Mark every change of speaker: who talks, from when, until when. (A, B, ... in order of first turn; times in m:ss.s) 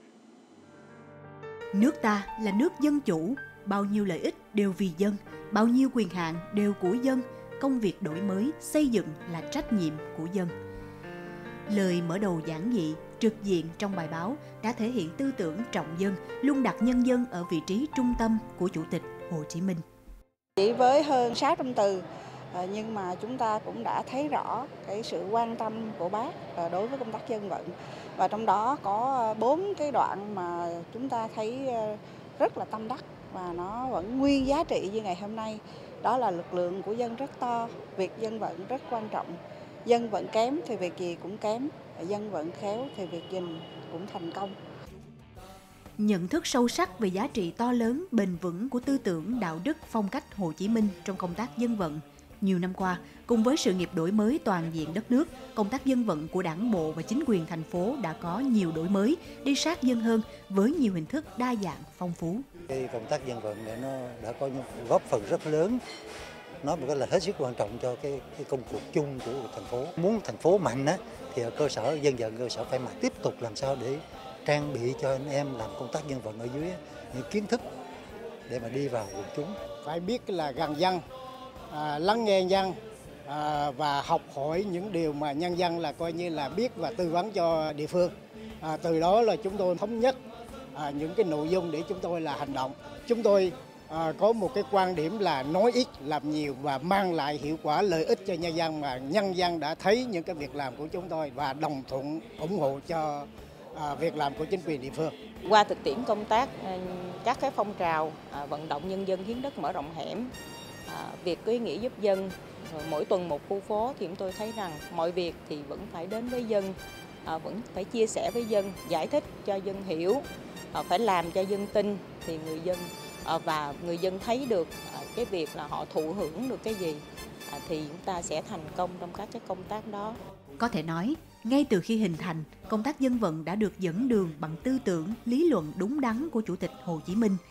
0:01.7-0:06.9 A
0:07.6-0:10.5 A
0:11.7-0:19.8 A
0:20.6-0:22.0 B
0:22.5-0:44.5 B
0:46.0-1:02.4 A
1:02.7-1:05.8 C
1:06.6-1:17.7 C
1:18.5-1:19.6 C
1:19.8-1:21.0 D
1:21.7-1:22.8 D
1:23.3-1:30.2 D
1:30.8-1:45.1 D
1:45.4-1:50.3 E
1:50.9-2:10.2 E
2:10.6-2:17.1 A